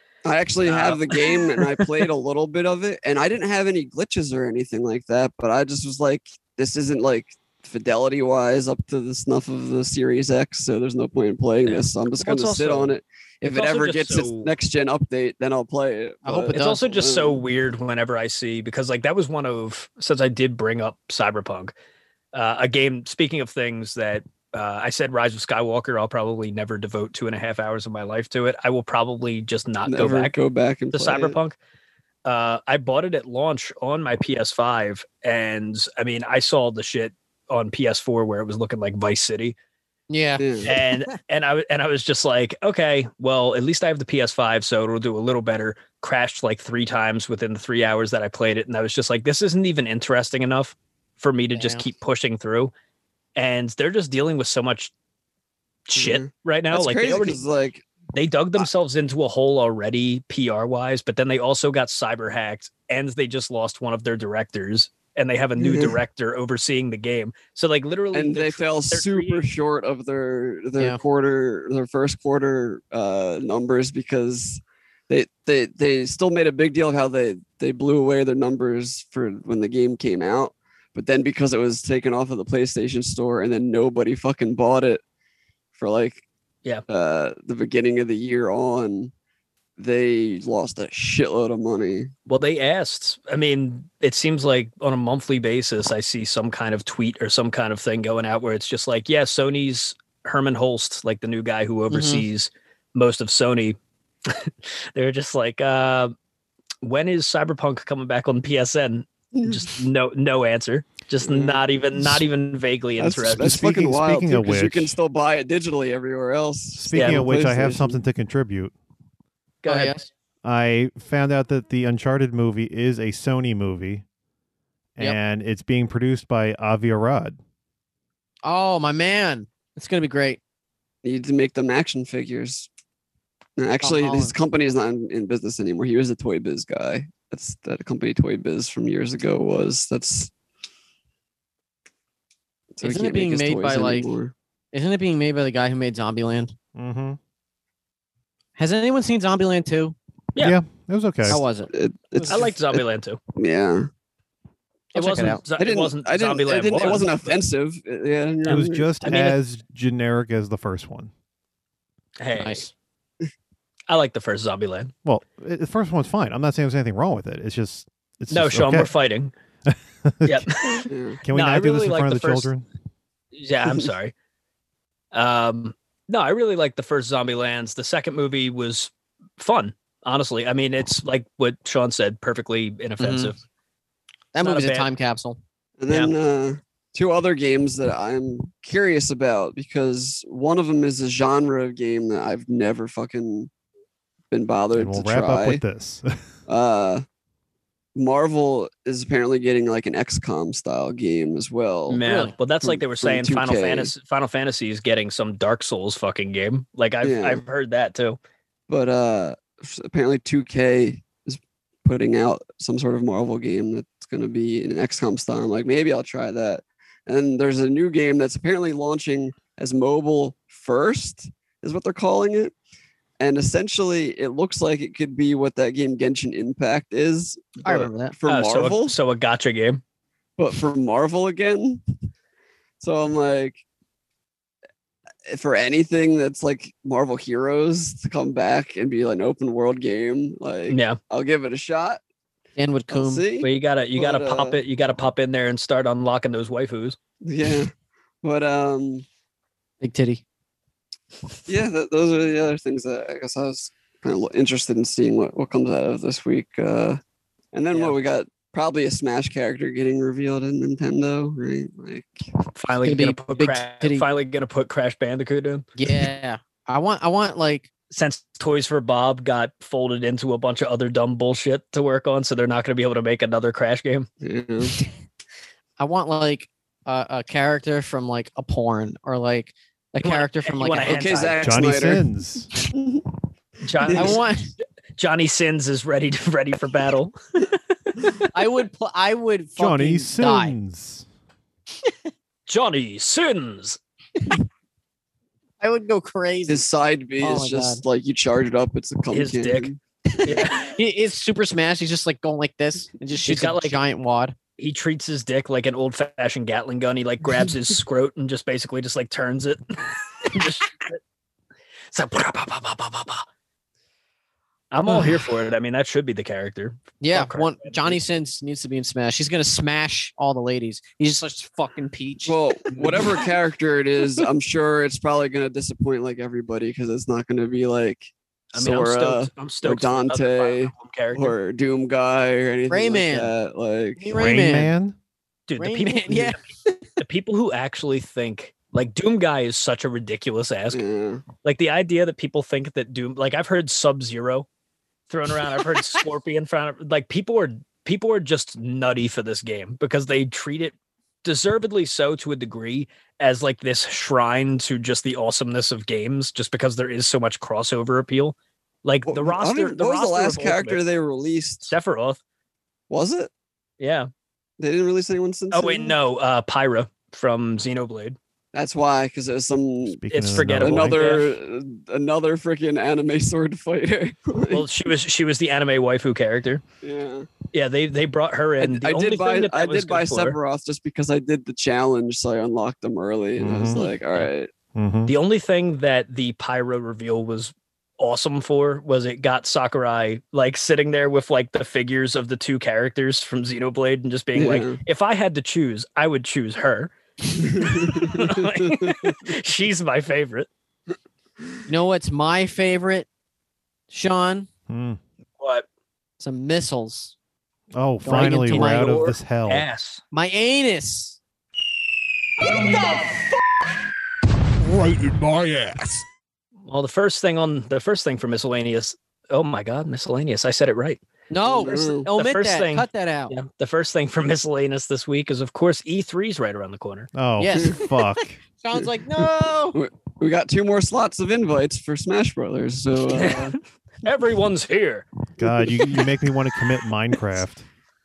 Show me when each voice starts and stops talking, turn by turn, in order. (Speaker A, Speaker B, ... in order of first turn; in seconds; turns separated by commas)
Speaker A: 0.2-17.4, Speaker B: 0.6-1.7, Speaker B: 11.6-14.5, Speaker C: 16.2-16.8, Speaker B: 16.5-21.7, Speaker B: 22.3-30.3, Speaker A: 29.9-31.4, Speaker B: 30.9-31.5, Speaker B: 32.2-39.5, Speaker C: 40.1-41.1, Speaker A: 40.4-40.7, Speaker B: 40.6-52.7, Speaker C: 51.5-51.9, Speaker B: 53.4-54.9, Speaker B: 55.9-57.4, Speaker A: 56.0-57.8, Speaker B: 58.1-69.4, Speaker A: 65.6-66.0, Speaker A: 68.1-85.0, Speaker A: 85.7-86.2, Speaker A: 86.9-89.1, Speaker A: 89.8-92.1, Speaker B: 92.3-106.1, Speaker C: 101.9-102.2, Speaker B: 106.8-113.5, Speaker A: 109.4-109.6, Speaker A: 111.2-112.2, Speaker A: 113.0-118.0, Speaker D: 113.3-115.0, Speaker D: 116.8-118.7, Speaker B: 116.9-117.3, Speaker B: 119.6-120.0, Speaker C: 119.7-120.0, Speaker D: 120.4-124.0, Speaker D: 125.0-127.4, Speaker C: 128.4-130.4, Speaker A: 131.0-132.7, Speaker A: 133.6-140.3, Speaker C: 133.8-134.3, Speaker A: 142.7-144.3, Speaker C: 142.8-144.1, Speaker C: 144.7-146.5, Speaker D: 146.7-147.2, Speaker C: 148.6-149.9, Speaker D: 150.4-151.4, Speaker C: 151.2-151.7, Speaker A: 151.7-152.8, Speaker B: 152.3-153.2, Speaker A: 153.3-153.9, Speaker C: 154.9-155.4, Speaker B: 154.9-157.4, Speaker A: 155.6-158.9, Speaker D: 158.4-161.1, Speaker B: 158.5-159.4, Speaker B: 162.2-162.7, Speaker C: 162.4-162.7, Speaker B: 163.9-164.9, Speaker D: 165.0-168.9, Speaker B: 168.3-169.3, Speaker D: 169.7-170.5, Speaker B: 170.2-172.5, Speaker A: 170.9-171.2, Speaker D: 171.2-172.6, Speaker B: 173.3-174.1, Speaker B: 175.1-183.4, Speaker C: 183.0-183.3, Speaker C: 184.3-185.4, Speaker B: 184.4-184.9, Speaker A: 185.8-193.5, Speaker B: 185.9-186.1, Speaker A: 194.3-195.6, Speaker D: 194.7-196.1, Speaker A: 196.5-197.0, Speaker A: 197.9-202.0, Speaker B: 201.9-208.2, Speaker C: 202.0-202.3, Speaker A: 202.6-203.9, Speaker A: 207.0-207.4, Speaker A: 208.7-222.5, Speaker A: 223.2-228.9, Speaker C: 227.6-228.1, Speaker B: 228.3-229.8, Speaker A: 230.4-231.8, Speaker A: 232.8-233.6, Speaker A: 235.3-242.0, Speaker B: 240.7-241.0, Speaker C: 242.6-243.3, Speaker A: 242.9-244.6, Speaker B: 243.4-247.0, Speaker A: 247.2-247.7, Speaker A: 248.2-249.0, Speaker C: 249.8-250.2, Speaker A: 251.5-257.0, Speaker A: 257.5-262.2, Speaker B: 262.5-265.7, Speaker C: 262.8-264.0, Speaker C: 265.8-267.7, Speaker B: 267.9-274.1, Speaker A: 274.2-274.7, Speaker C: 275.8-281.4, Speaker B: 280.0-281.6, Speaker A: 280.8-283.1, Speaker D: 281.4-282.5, Speaker B: 283.6-284.2, Speaker A: 283.8-284.2, Speaker C: 283.9-284.5, Speaker B: 284.9-287.5, Speaker C: 288.3-290.5, Speaker D: 289.6-291.1, Speaker B: 292.5-293.8, Speaker C: 295.6-296.6, Speaker A: 296.5-299.8, Speaker C: 297.2-297.8, Speaker B: 299.1-299.7, Speaker C: 300.2-304.3, Speaker B: 300.2-300.7, Speaker B: 303.2-303.8, Speaker B: 304.6-311.0, Speaker B: 311.9-313.2, Speaker B: 314.7-318.0, Speaker C: 317.0-323.1, Speaker A: 322.2-334.1, Speaker B: 328.5-331.3, Speaker C: 332.7-333.3, Speaker C: 334.0-334.7, Speaker D: 334.1-335.0, Speaker B: 335.5-336.4, Speaker C: 335.6-336.9, Speaker B: 337.0-340.8, Speaker A: 340.7-341.2, Speaker B: 341.4-344.5, Speaker B: 345.1-360.8, Speaker A: 359.1-361.7, Speaker B: 361.6-362.2, Speaker A: 362.9-363.3, Speaker B: 363.8-364.1, Speaker A: 364.6-365.9, Speaker B: 365.5-368.2, Speaker A: 368.5-374.7, Speaker D: 370.0-371.1, Speaker B: 370.1-371.3, Speaker B: 374.5-376.6, Speaker A: 376.8-377.3, Speaker B: 377.5-380.4, Speaker A: 378.6-384.5, Speaker D: 383.4-383.9, Speaker B: 383.7-384.3, Speaker D: 384.7-385.1, Speaker B: 385.1-396.9, Speaker A: 394.4-394.8, Speaker A: 397.3-399.1, Speaker B: 397.6-400.5, Speaker C: 401.7-403.1, Speaker C: 403.9-404.5, Speaker D: 404.7-405.0, Speaker B: 405.4-405.6, Speaker C: 406.2-407.1, Speaker D: 407.7-409.6, Speaker C: 408.0-409.1, Speaker B: 408.3-410.0, Speaker C: 410.1-411.2, Speaker E: 412.5-413.0, Speaker E: 414.6-416.0, Speaker B: 416.7-421.0, Speaker C: 421.3-423.3, Speaker A: 421.4-422.1, Speaker B: 422.1-427.1, Speaker D: 427.1-428.4, Speaker C: 427.4-427.9, Speaker C: 428.6-429.8, Speaker A: 429.7-433.6, Speaker B: 433.1-435.1, Speaker D: 435.4-437.6